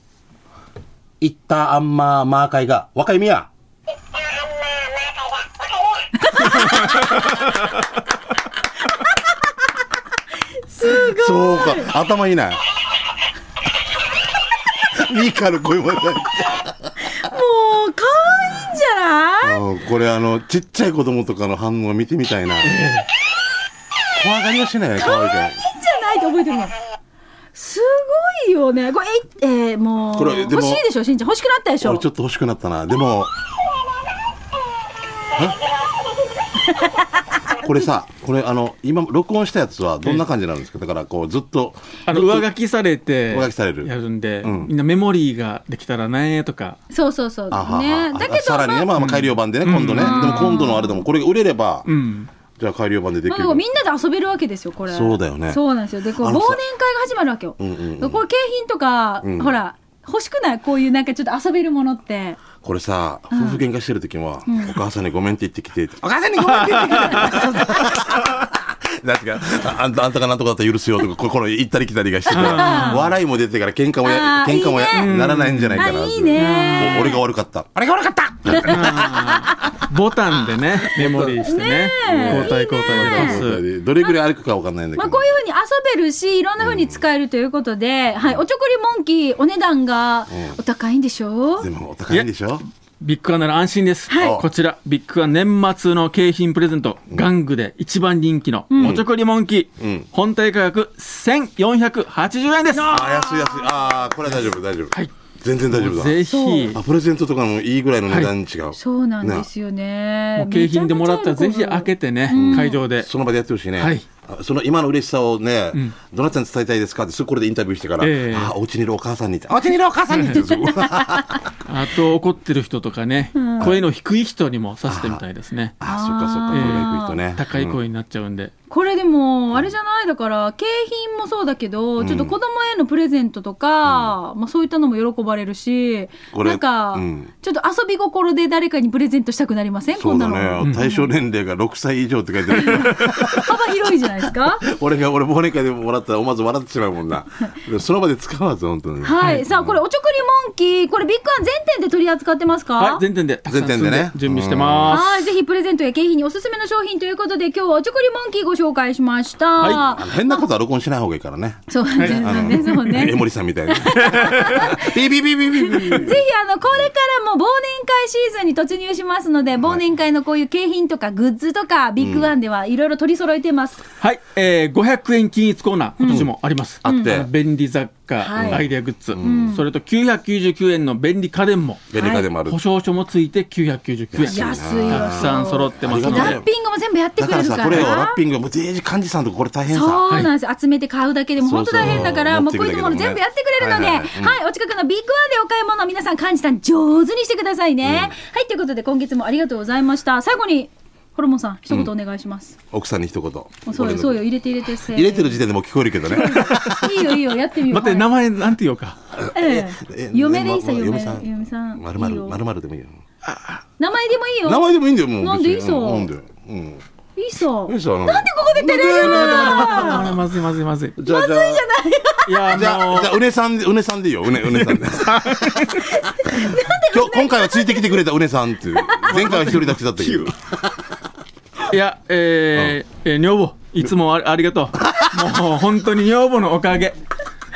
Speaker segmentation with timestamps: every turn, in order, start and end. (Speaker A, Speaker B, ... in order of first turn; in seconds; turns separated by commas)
Speaker A: 1.2-3.5, Speaker B: 10.6-11.9, Speaker A: 10.8-12.6, Speaker A: 14.9-16.9, Speaker B: 17.1-19.6, Speaker A: 19.4-22.8, Speaker C: 22.6-23.1, Speaker A: 24.1-25.6, Speaker B: 25.0-26.7, Speaker B: 27.5-32.0, Speaker A: 30.1-30.8, Speaker A: 31.8-33.3, Speaker A: 35.3-35.6, Speaker A: 37.5-42.5, Speaker C: 42.0-46.8, Speaker A: 43.3-43.9, Speaker A: 44.4-44.7, Speaker B: 46.9-48.9, Speaker A: 47.5-51.9, Speaker C: 49.0-50.7, Speaker B: 50.0-51.0, Speaker C: 51.9-52.3, Speaker A: 52.5-53.6, Speaker B: 53.2-62.4, Speaker A: 54.9-55.6, Speaker A: 56.2-56.6, Speaker A: 57.6-58.2, Speaker A: 59.2-59.6, Speaker A: 62.6-79.8, Speaker B: 63.3-63.6, Speaker B: 64.5-64.8, Speaker B: 66.4-67.9, Speaker C: 72.3-73.2, Speaker B: 72.3-73.0, Speaker B: 74.0-75.1, Speaker C: 74.9-77.1, Speaker B: 75.7-77.2, Speaker B: 78.5-78.9, Speaker C: 78.6-83.6, Speaker A: 80.8-81.4, Speaker B: 81.3-83.4, Speaker A: 82.0-85.3, Speaker B: 85.0-91.7, Speaker A: 86.6-87.0, Speaker A: 90.3-90.6, Speaker A: 91.6-92.6, Speaker C: 93.0-102.9, Speaker B: 94.1-94.4, Speaker A: 94.2-94.5, Speaker B: 98.7-99.0, Speaker A: 98.8-99.1, Speaker A: 99.8-100.1, Speaker B: 102.7-103.9, Speaker A: 102.9-109.5, Speaker C: 105.7-106.8, Speaker B: 106.2-106.8, Speaker B: 108.8-112.8, Speaker C: 110.4-113.1, Speaker A: 112.3-121.4, Speaker C: 113.8-114.0, Speaker C: 118.0-118.5, Speaker C: 120.2-120.4, Speaker B: 120.4-121.4, Speaker C: 121.6-125.7, Speaker B: 123.3-123.7, Speaker A: 124.9-125.2, Speaker A: 125.8-127.8, Speaker B: 125.8-127.2, Speaker C: 126.5-128.5, Speaker B: 128.7-141.1, Speaker A: 132.0-132.4, Speaker A: 133.8-134.1, Speaker A: 136.3-137.3, Speaker A: 139.9-149.8, Speaker B: 142.5-144.6, Speaker B: 149.0-153.0, Speaker C: 152.8-155.2, Speaker A: 153.5-155.0, Speaker B: 154.9-160.4, Speaker A: 159.6-166.2, Speaker B: 161.7-173.8, Speaker C: 162.0-163.1, Speaker C: 163.9-164.7, Speaker A: 172.0-172.3, Speaker C: 174.0-186.4, Speaker B: 176.0-176.3, Speaker A: 176.8-177.3, Speaker B: 176.8-177.2, Speaker B: 178.2-179.7, Speaker A: 178.3-179.6, Speaker A: 181.9-182.6, Speaker B: 182.0-182.2, Speaker A: 184.1-186.5, Speaker B: 184.2-188.2, Speaker A: 187.2-190.0, Speaker C: 187.7-188.0, Speaker B: 189.7-202.6, Speaker A: 191.4-194.4, Speaker C: 191.8-192.2, Speaker A: 197.8-198.1, Speaker A: 202.7-204.2, Speaker B: 203.7-205.4, Speaker A: 204.9-206.8, Speaker B: 206.1-208.1, Speaker C: 206.5-206.8, Speaker C: 207.7-209.0, Speaker A: 209.2-213.0, Speaker B: 209.3-212.4, Speaker C: 213.2-213.6, Speaker B: 213.8-214.7, Speaker A: 214.4-216.8, Speaker B: 215.2-216.1, Speaker B: 217.2-220.2, Speaker A: 217.7-220.2, Speaker C: 218.9-221.0, Speaker A: 221.0-221.7, Speaker B: 221.1-222.6, Speaker C: 222.3-223.2, Speaker A: 222.5-230.6, Speaker C: 224.5-225.9, Speaker B: 225.8-228.0, Speaker B: 228.8-229.1, Speaker C: 229.0-230.3, Speaker C: 231.6-237.0, Speaker A: 234.8-235.2